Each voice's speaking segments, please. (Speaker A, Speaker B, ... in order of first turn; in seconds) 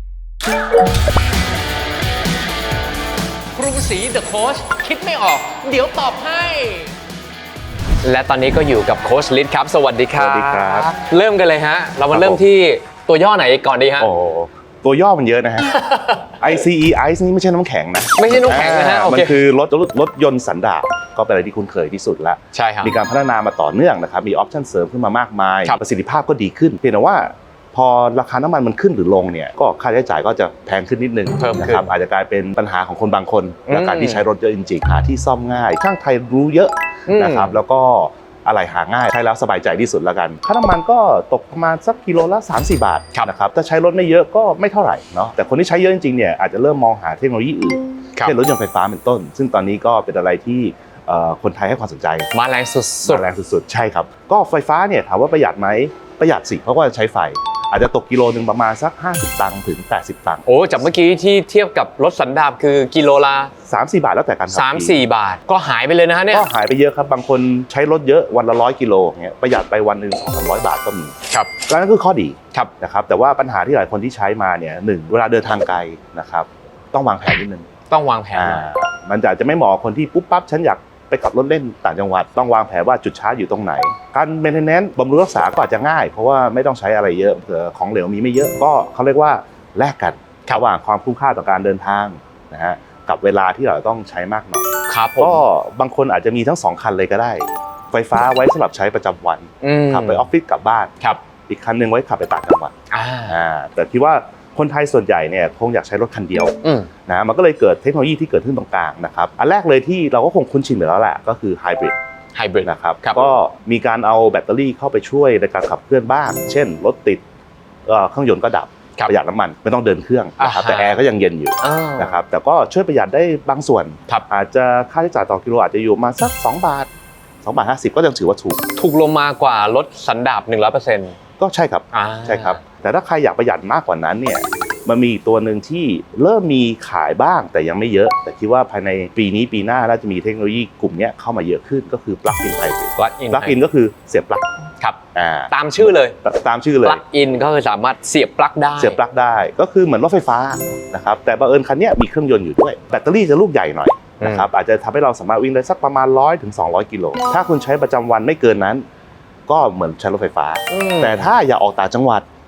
Speaker A: 3.5-6.9, 8.0-14.1, 15.7-16.4, 18.1-19.4, 22.5-22.9, 31.4-31.9, 33.7-34.2, 37.1-37.6, 52.3-53.3, 60.5-63.5, 64.5-66.5, 77.9-78.7, 94.9-95.5, 99.6-100.3, 102.9-103.4, 106.6-106.9, 112.3-113.3, 120.4-121.0, 121.6-122.2, 128.8-131.2, 131.9-132.6, 143.0-143.6, 145.5-146.2, 146.8-149.0, 154.2-154.5, 160.7-161.3
Speaker B: 10.1-10.9, 12.1-12.4, 14.0-15.8, 16.3-52.3, 53.0-60.5, 63.7-65.0, 66.3-71.2, 71.7-77.7, 78.4-94.7, 95.2-100.9, 101.5-102.7, 103.3-106.5, 107.1-112.0, 112.6-117.2, 117.9-126.9, 127.4-128.6, 131.4-144.4, 145.2-147.0, 148.8-158.8, 159.5-162.2